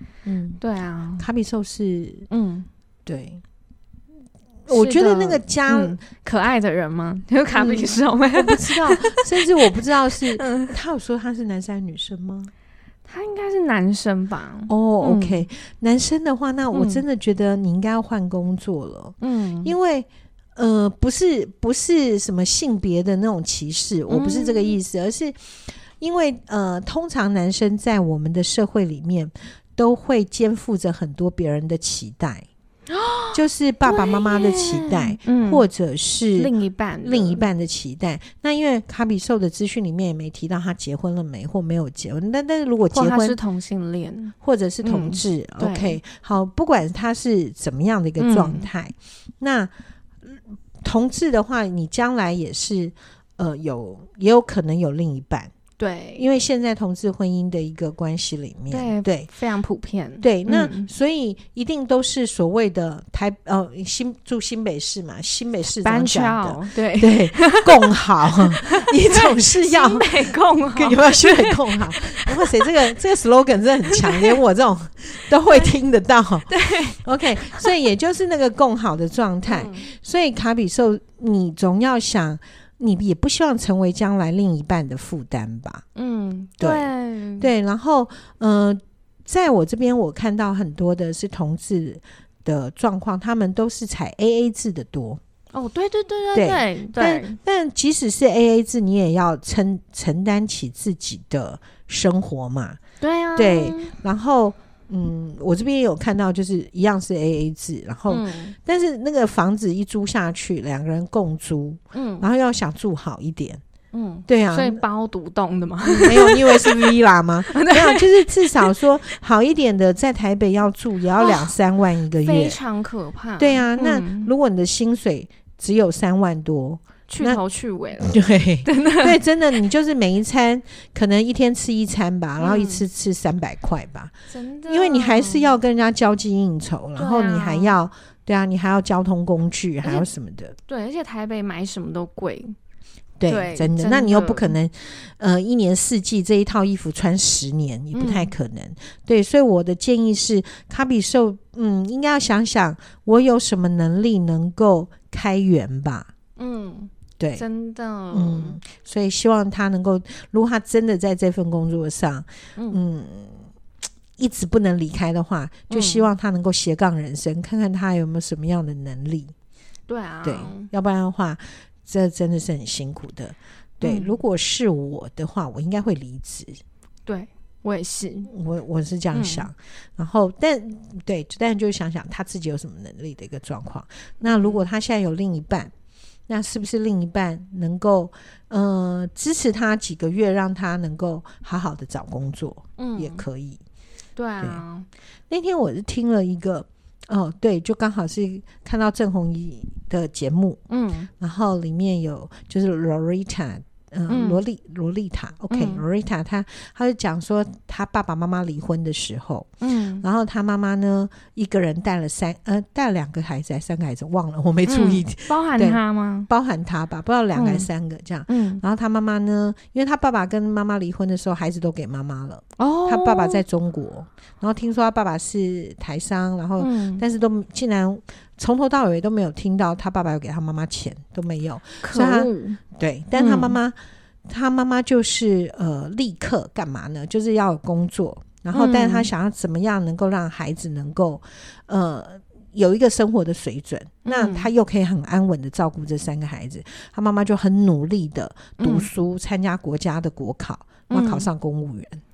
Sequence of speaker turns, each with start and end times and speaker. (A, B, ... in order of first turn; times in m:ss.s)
0:00.2-0:00.6 A
0:00.6-0:01.2 B
0:01.2-0:02.3 A
0:02.3-0:02.7 B
0:03.0-0:03.4 A
0:04.7-0:06.0 A
0:04.7-0:09.4 B
0:07.5-0:12.5 A
0:10.1-0:10.7 B
0:13.0-0:15.5 B
0:14.7-0:25.4 A
0:16.7-0:17.0 B
0:19.2-0:19.7 B
0:24.1-0:24.8 B
0:26.0-0:32.5 A
0:32.9-0:35.6 B
0:33.3-0:36.5 A
0:36.4-0:37.4 B
0:37.0-0:43.4 A
0:42.9-0:46.0 B
0:44.4-0:49.7 A
0:48.2-0:48.7 B
0:50.2-0:55.5 A
0:55.8-0:56.3 B
0:56.2-0:59.3 A
0:58.7-1:00.9 B
1:00.2-1:10.1 A
1:05.8-1:07.7 B
1:08.3-1:12.7 B
1:10.7-1:25.8 A
1:13.9-1:14.4 B
1:16.5-1:17.0 B
1:19.5-1:19.9 B
1:25.9-1:27.5 B
1:26.6-1:35.2 A
1:35.5-1:37.4 B
1:36.3-1:42.8 A
1:43.0-1:43.9 B
1:43.4-1:53.6 A
1:48.1-1:48.5 B
1:51.9-1:52.2 B
1:53.9-1:57.0 B
1:54.3-1:54.8 A
1:55.8-2:02.6 A
1:57.5-1:58.7 B
2:02.2-2:04.3 B
2:03.4-2:07.4 A
2:07.1-2:09.2 B
2:08.0-2:14.1 A
2:12.4-2:12.8 B
2:14.3-2:15.5 B
2:14.7-2:20.5 A
2:17.0-2:17.7 B
2:19.8-2:20.1 B
2:20.7-2:22.6 B
2:23.2-2:36.1 A
2:23.3-2:24.6 B
2:27.9-2:28.3 B
2:36.4-2:38.6 B
2:37.2-2:37.4 A
2:38.1-2:43.4 A
2:44.2-2:49.3 A
2:45.7-2:46.1 B
2:49.9-2:50.7 B
2:50.2-2:56.6 A
2:53.8-2:54.1 B
2:57.0-2:58.3 B
2:58.3-3:05.7 A
2:59.1-2:59.5 B
3:04.3-3:04.6 B
3:06.3-3:13.6 A
3:12.8-3:13.2 B
3:14.2-3:14.9 B
3:15.3-3:20.6 A
3:20.7-3:21.1 B
3:21.2-3:29.5 A
3:24.1-3:24.4 B
3:25.5-3:25.8 B
3:29.6-3:30.0 B
3:30.0-4:12.0 A
3:34.6-3:36.3 B
3:37.3-3:37.7 B
3:38.3-3:38.6 B
3:42.6-3:43.4 B
3:46.6-3:47.0 B
3:51.8-3:52.6 B
3:53.1-3:53.6 B
3:58.5-3:59.1 B
4:04.0-4:04.5 B
4:08.6-4:08.9 B
4:10.9-4:11.3 B